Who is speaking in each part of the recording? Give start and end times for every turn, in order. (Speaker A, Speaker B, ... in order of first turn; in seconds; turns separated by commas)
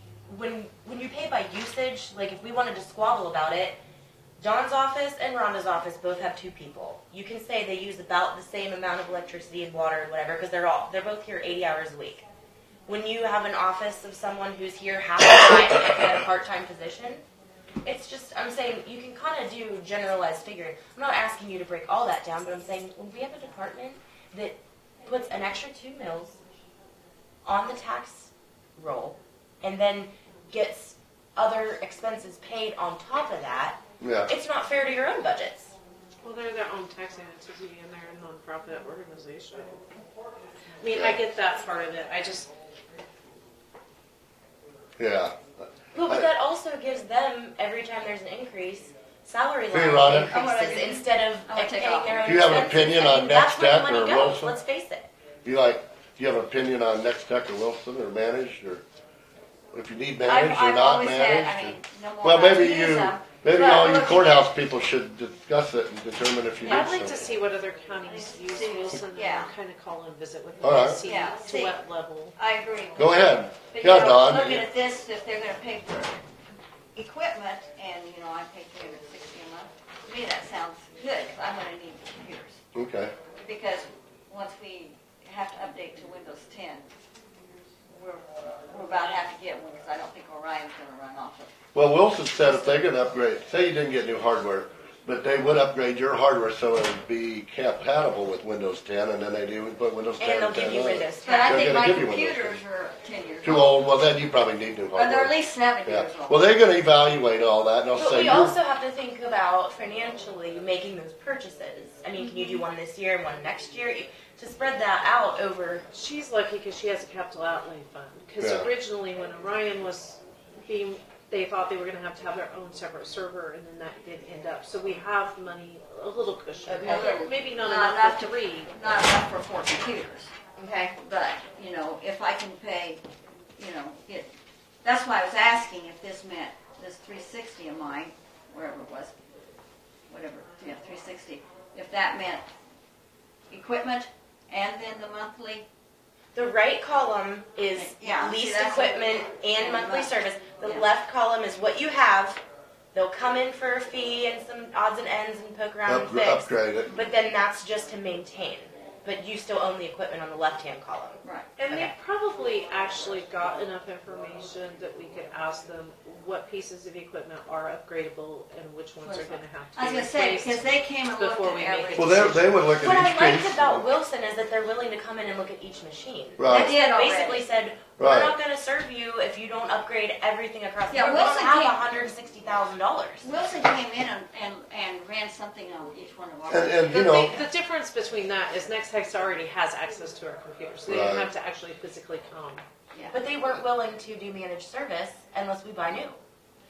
Speaker A: 0.3-3.8, Speaker A: 4.4-12.2, Speaker A: 12.9-17.2, Speaker A: 17.8-26.4, Speaker A: 27.4-35.8, Speaker B: 34.0-34.3, Speaker C: 36.2-39.8, Speaker C: 40.8-42.5, Speaker B: 40.9-41.2, Speaker B: 45.0-46.3, Speaker A: 45.9-55.1, Speaker B: 49.7-50.3, Speaker D: 50.3-52.8, Speaker B: 52.2-54.5, Speaker B: 55.4-58.8, Speaker B: 59.7-67.3, Speaker D: 60.3-64.5, Speaker C: 66.6-72.4, Speaker D: 66.7-67.0, Speaker D: 68.0-69.5, Speaker B: 70.6-71.0, Speaker D: 71.0-71.8, Speaker D: 72.4-76.4, Speaker B: 73.0-74.7, Speaker D: 77.0-82.6, Speaker B: 82.7-83.1, Speaker D: 83.4-86.9, Speaker D: 87.9-91.5, Speaker B: 91.7-102.6, Speaker A: 100.2-101.7, Speaker D: 101.2-103.8, Speaker B: 103.4-108.5, Speaker D: 104.9-106.5, Speaker A: 108.0-115.9, Speaker C: 115.9-128.8, Speaker B: 118.4-118.7, Speaker A: 126.7-127.2, Speaker D: 126.7-133.0, Speaker D: 133.6-134.3, Speaker D: 134.8-139.1, Speaker D: 140.1-142.5, Speaker D: 143.5-145.7, Speaker A: 146.3-152.4, Speaker D: 147.8-150.9, Speaker A: 152.9-161.9, Speaker B: 155.9-157.0, Speaker D: 161.2-161.5, Speaker C: 161.6-172.5, Speaker D: 169.0-172.5, Speaker B: 171.9-173.9, Speaker A: 172.8-183.3, Speaker B: 176.4-176.8, Speaker D: 176.4-177.5, Speaker B: 178.0-178.4, Speaker D: 180.9-181.8, Speaker D: 183.2-187.3, Speaker B: 186.5-187.4, Speaker C: 186.9-192.6, Speaker B: 190.9-191.3, Speaker D: 192.9-193.2, Speaker A: 193.1-196.2